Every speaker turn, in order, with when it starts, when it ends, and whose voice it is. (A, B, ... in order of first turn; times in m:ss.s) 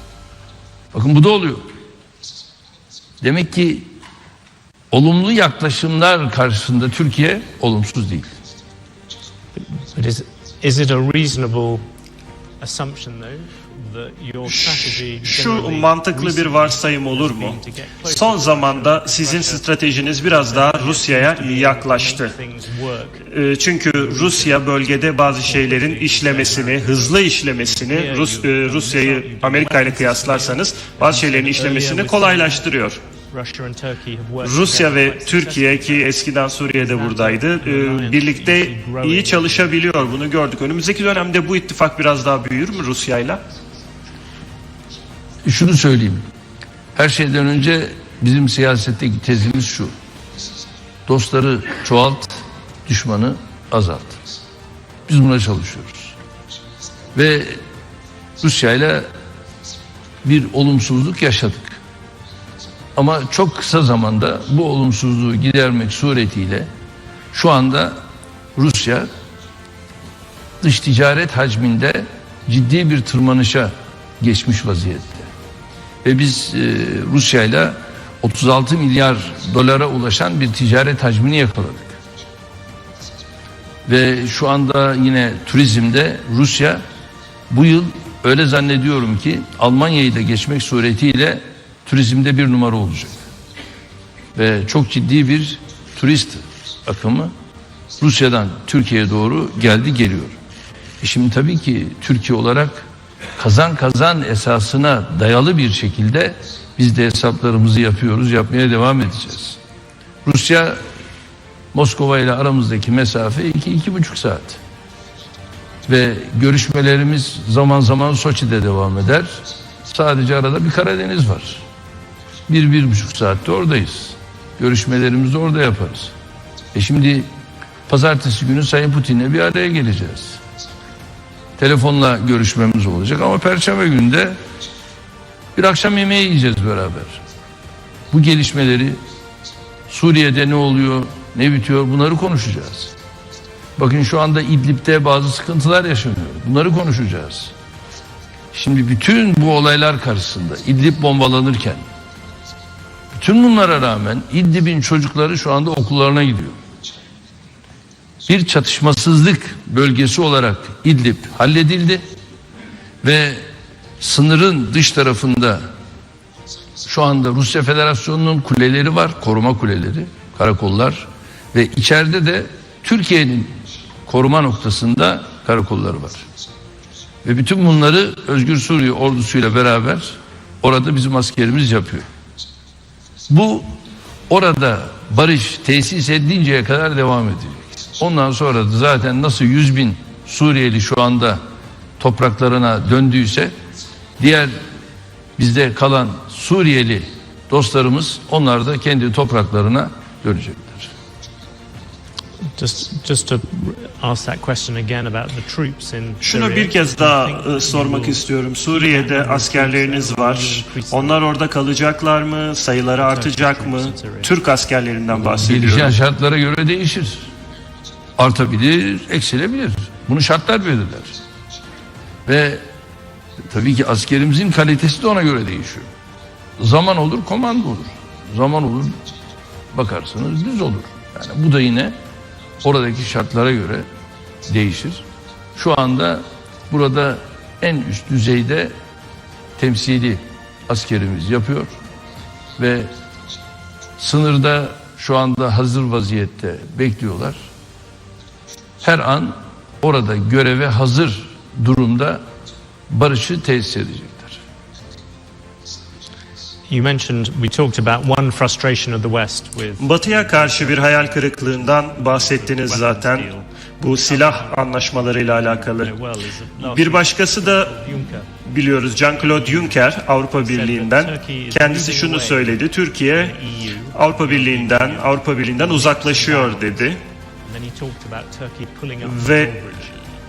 0:00.9-0:01.7 A
0:03.2-0:03.9 A
0:04.9-0:08.3 A
0:09.7-0:11.8 B
0:12.6-0:23.3 B
0:14.4-0:22.3 C
0:23.2-0:33.0 C
0:23.9-0:36.1 B
0:34.4-0:43.4 C
0:36.7-0:40.1 B
0:45.4-0:46.2 A
0:46.9-0:49.9 A
0:51.1-0:54.2 A
0:55.1-0:56.1 A
0:57.1-0:57.6 A
0:58.4-0:59.1 A
1:00.2-1:01.8 A
1:03.0-1:06.7 A
1:07.3-1:08.0 A
1:08.6-1:09.1 A
1:10.6-1:15.3 A
1:16.0-1:22.0 A
1:23.8-1:26.8 A
1:27.5-1:33.2 A
1:34.3-1:37.3 A
1:38.0-1:40.4 A
1:41.0-1:42.8 A
1:43.4-1:49.6 A
1:50.2-1:50.8 A
1:51.7-1:54.6 A
1:55.9-2:01.6 A
2:02.5-2:06.1 A
2:06.7-2:07.3 A
2:07.9-2:10.4 A
2:11.6-2:14.4 A
2:15.5-2:17.2 A
2:18.1-2:19.0 A
2:19.9-2:22.9 A
2:23.8-2:27.5 A
2:28.5-2:31.8 A
2:33.1-2:36.6 A
2:38.3-2:42.0 A
2:43.0-2:43.4 A
2:44.0-2:45.6 A
2:46.8-2:53.5 A
2:54.0-2:56.2 A
2:57.2-3:02.0 A
3:03.3-3:03.7 A
3:04.3-3:11.4 A
3:12.0-3:13.5 A
3:14.2-3:14.6 A
3:15.4-3:20.9 A
3:22.6-3:31.2 B
3:26.2-3:36.0 C
3:33.0-3:34.4 B
3:35.1-3:37.3 A
3:38.2-3:41.2 A
3:42.2-3:42.6 A
3:43.5-3:45.9 A
3:46.6-3:49.0 A
3:49.7-3:51.9 A
3:52.6-3:53.9 A
3:54.5-3:55.0 A
3:55.6-3:58.7 A
3:59.6-4:01.7 A
4:02.6-4:02.9 A
4:04.0-4:07.4 A
4:08.8-4:12.2 A
4:12.9-4:14.4 A
4:16.7-4:23.5 B
4:19.8-4:23.3 C
4:23.8-4:25.9 C
4:24.0-4:28.3 B
4:26.6-4:27.8 C
4:28.4-4:33.3 C
4:29.2-4:29.8 B
4:30.4-4:40.1 B
4:33.9-4:37.0 C
4:39.0-4:39.5 C